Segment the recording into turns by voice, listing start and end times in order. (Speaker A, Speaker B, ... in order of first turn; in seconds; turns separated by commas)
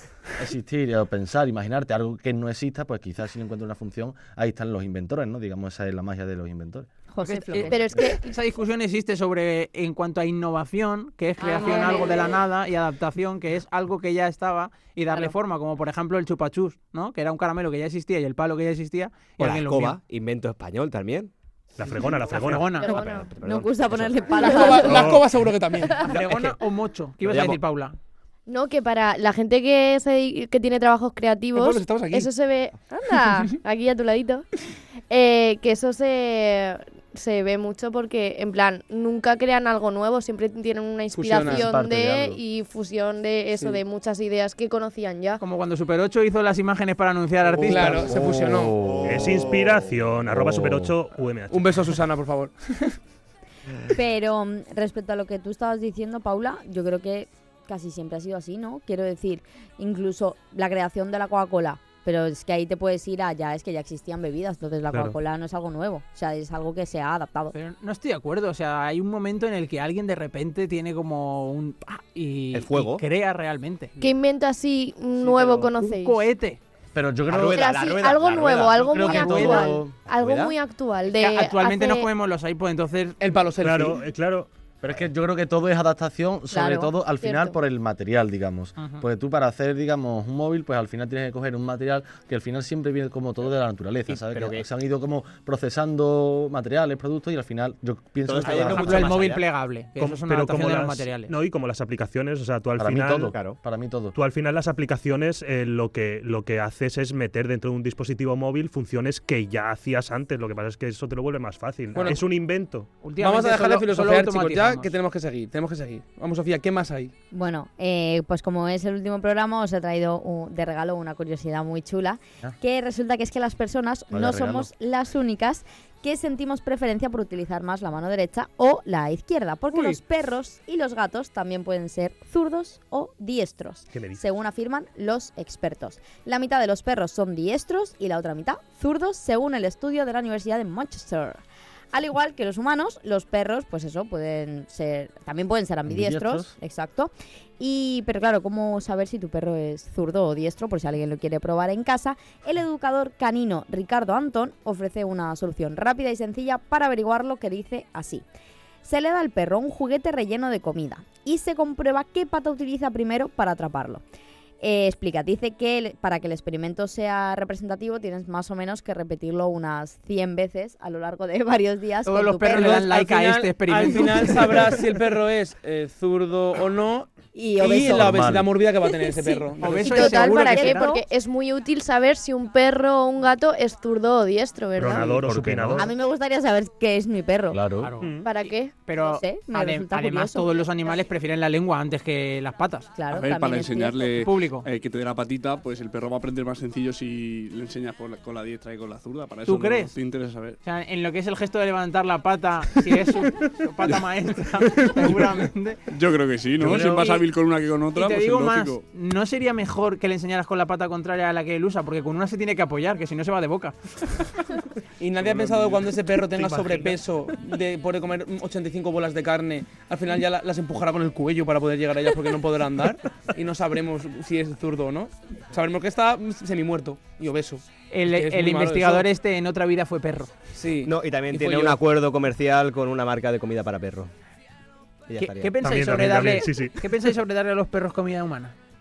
Speaker A: 0.4-6.9, Speaker B: 7.1-7.9, Speaker C: 7.2-20.0, Speaker D: 7.5-8.2, Speaker B: 11.4-12.1, Speaker D: 11.6-12.2, Speaker E: 19.4-21.3, Speaker F: 21.8-23.8, Speaker C: 22.3-22.9, Speaker D: 22.8-23.3, Speaker B: 22.8-25.1, Speaker E: 23.2-24.1, Speaker D: 24.4-24.8, Speaker G: 24.4-26.1, Speaker F: 24.5-25.2, Speaker C: 26.1-28.0, Speaker E: 27.2-27.6, Speaker D: 28.5-34.5, Speaker G: 31.5-32.3, Speaker D: 35.1-45.4, Speaker G: 41.1-41.7, Speaker A: 41.4-42.4, Speaker G: 43.5-43.8, Speaker C: 45.4-48.1, Speaker G: 47.6-48.9, Speaker A: 47.7-51.0, Speaker F: 49.0-52.0, Speaker G: 51.5-53.0, Speaker B: 53.9-67.5, Speaker F: 64.9-65.2, Speaker C: 67.5-74.0, Speaker E: 72.5-73.0, Speaker D: 74.0-76.2, Speaker F: 75.2-75.7, Speaker C: 75.8-76.6, Speaker A: 76.9-77.7, Speaker E: 77.3-78.9, Speaker D: 77.5-82.1, Speaker A: 78.7-80.5, Speaker C: 79.0-79.8, Speaker E: 80.2-80.5, Speaker C: 81.1-83.2, Speaker G: 83.2-84.1, Speaker F: 83.6-84.5, Speaker A: 84.8-99.2, Speaker B: 86.5-86.9, Speaker D: 87.2-87.6, Speaker C: 88.8-89.0, Speaker E: 94.1-94.7, Speaker E: 98.2-99.5, Speaker C: 98.4-101.3, Speaker F: 99.9-103.3, Speaker A: 102.8-104.1, Speaker E: 103.3-103.6, Speaker F: 104.1-112.9, Speaker G: 111.9-112.2, Speaker C: 113.0-114.9, Speaker G: 113.2-117.1, Speaker B: 117.3-141.4, Speaker A: 124.1-124.7, Speaker C: 129.7-130.0, Speaker F: 133.9-134.2, Speaker B: 141.9-158.2, Speaker A: 145.9-146.5, Speaker B: 158.8-164.0, Speaker B: 164.6-172.9, Speaker C: 172.1-174.6, Speaker G: 172.5-180.1, Speaker B: 177.3-178.4, Speaker A: 177.8-178.5, Speaker C: 179.6-181.0, Speaker D: 179.8-185.3, Speaker B: 179.9-181.0, Speaker F: 184.8-185.9, Speaker A: 185.2-185.9, Speaker B: 185.8-187.6, Speaker A: 187.5-187.9, Speaker C: 187.8-188.1, Speaker F: 188.0-188.3, Speaker D: 188.2-188.8, Speaker C: 188.9-192.9, Speaker B: 188.9-190.5, Speaker B: 192.9-194.1, Speaker H: 193.1-200.6, Speaker C: 194.2-194.7, Speaker C: 199.4-199.9, Speaker C: 200.6-205.8, Speaker H: 205.0-205.4, Speaker H: 205.9-208.8, Speaker A: 206.6-207.2, Speaker C: 207.9-213.7, Speaker G: 215.0-229.1, Speaker H: 215.2-215.7, Speaker F: 216.3-217.0, Speaker C: 227.9-230.3, Speaker G: 230.5-231.8, Speaker E: 230.8-234.1, Speaker E: 235.1-235.6, Speaker C: 235.2-238.6, Speaker F: 235.6-236.8